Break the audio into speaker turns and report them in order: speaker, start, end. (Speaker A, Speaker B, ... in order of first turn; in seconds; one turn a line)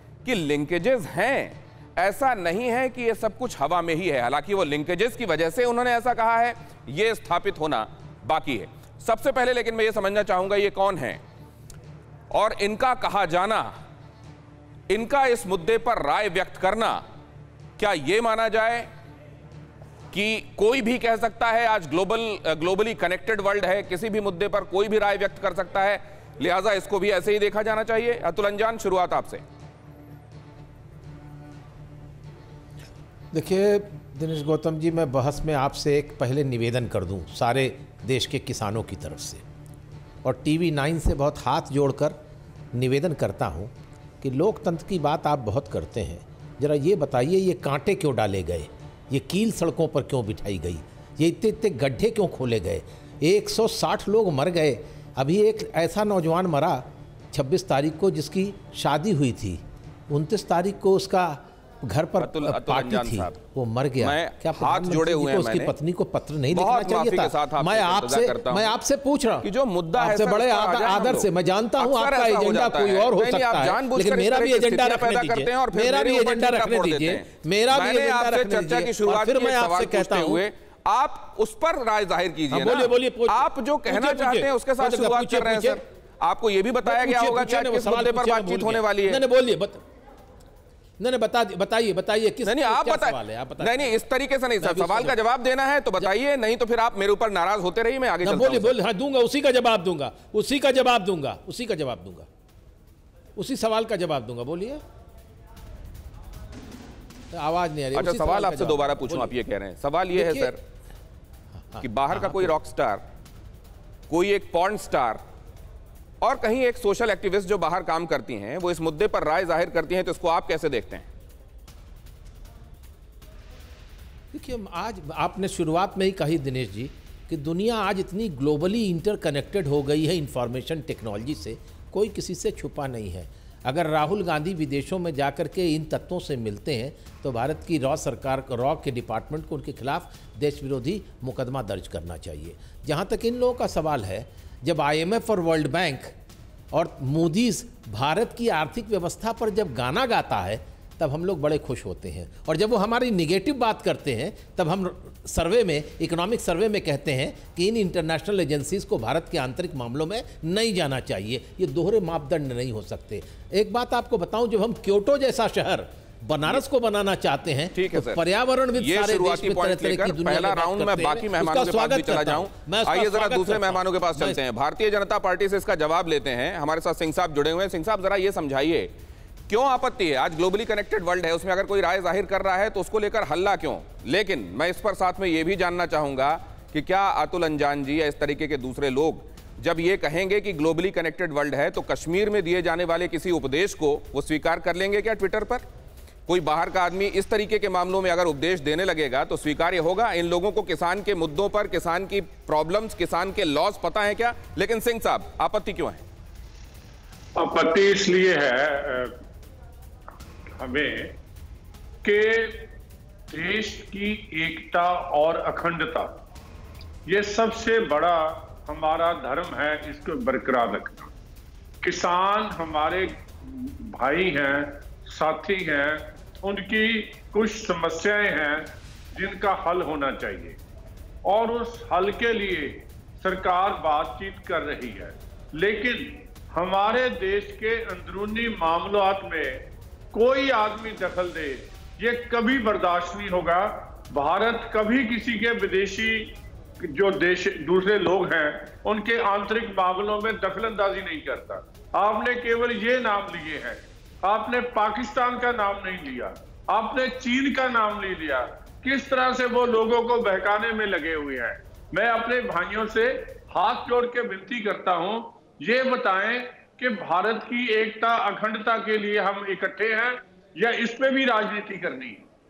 Speaker A: 0.2-11.2
Speaker A: 12.3-13.7
Speaker A: 14.9-17.0
Speaker A: 17.8-18.9
Speaker A: 20.1-29.4
Speaker B: 33.3-39.4
Speaker B: 40.2-42.2
Speaker B: 42.7-80.4
Speaker A: 62.2-63.4
Speaker A: 64.0-65.7
Speaker A: 66.5-68.7
Speaker A: 69.4-89.2
Speaker B: 82.5-85.8
Speaker B: 86.8-89.8
Speaker B: 91.0-94.0
Speaker A: 92.4-98.8
Speaker B: 94.6-95.2
Speaker B: 98.2-102.3
Speaker B: 103.4-104.8
Speaker B: 107.3-109.4
Speaker A: 108.0-110.6
Speaker B: 110.1-110.5
Speaker B: 111.6-112.5
Speaker A: 111.8-113.0
Speaker A: 114.1-115.2
Speaker A: 116.2-121.1
Speaker B: 124.3-146.2
Speaker B: 146.7-174.4
Speaker A: 167.8-168.2
Speaker A: 168.8-178.9
Speaker A: 179.5-195.7
Speaker A: 196.3-206.0
Speaker C: 207.4-209.2
Speaker C: 210.6-211.2
Speaker C: 212.0-212.7
Speaker C: 213.3-216.1
Speaker C: 217.1-221.1
Speaker C: 221.8-230.6
Speaker C: 231.3-272.2